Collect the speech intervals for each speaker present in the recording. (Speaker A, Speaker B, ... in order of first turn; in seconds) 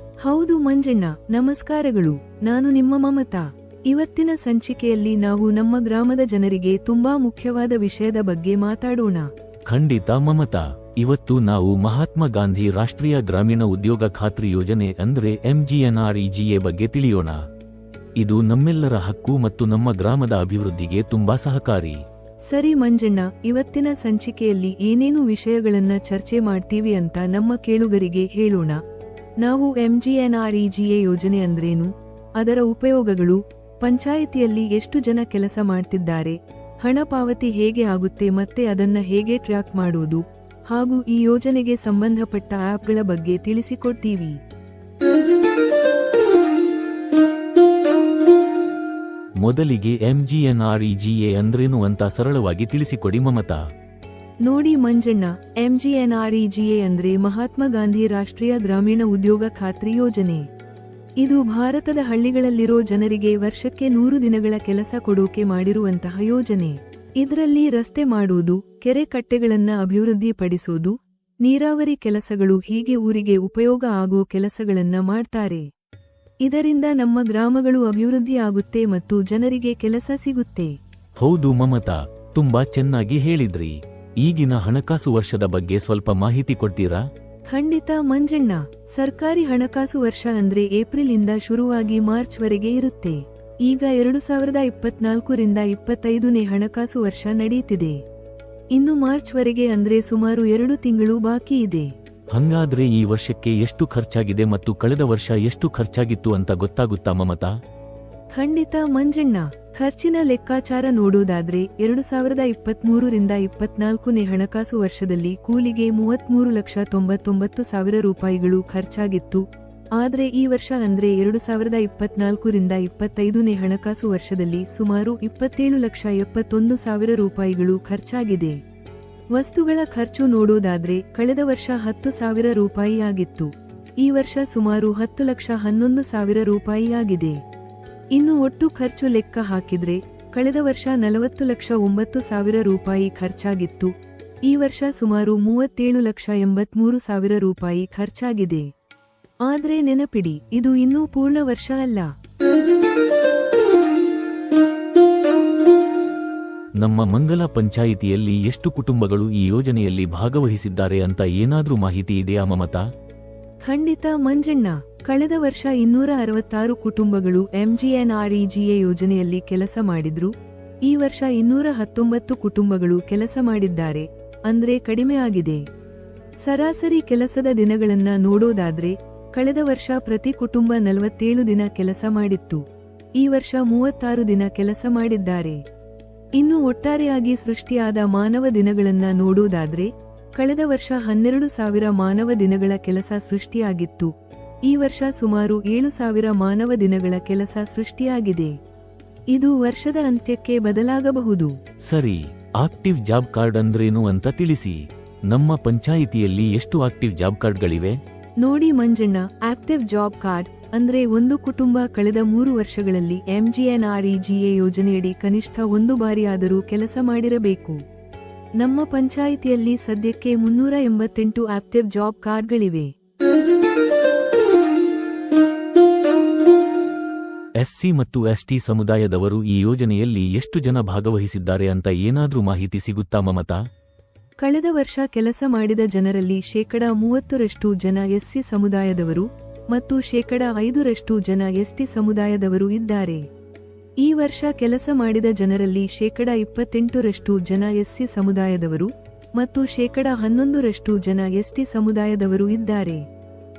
Speaker A: 0.2-9.3, 22.5-28.8, 29.4-44.4, 54.4-60.4, 61.2-75.7, 76.4-80.7, 87.5-98.0, 98.7-101.9, 108.3-119.4, 120.0-128.6, 129.3-137.4, 138.1-143.9, 144.5-148.7, 149.4-152.1, 163.6-170.3, 170.8-175.6, 176.4-182.6, 183.2-185.6, 186.4-194.1, 194.7-198.5, 199.3-201.5, 208.4-217.8, 218.6-222.9, 234.4-243.2, 244.0-253.0
Speaker B: 9.7-17.4, 18.2-22.0, 49.4-53.6, 81.2-87.0, 102.3-107.5, 156.8-162.8, 201.9-208.0, 227.6-233.6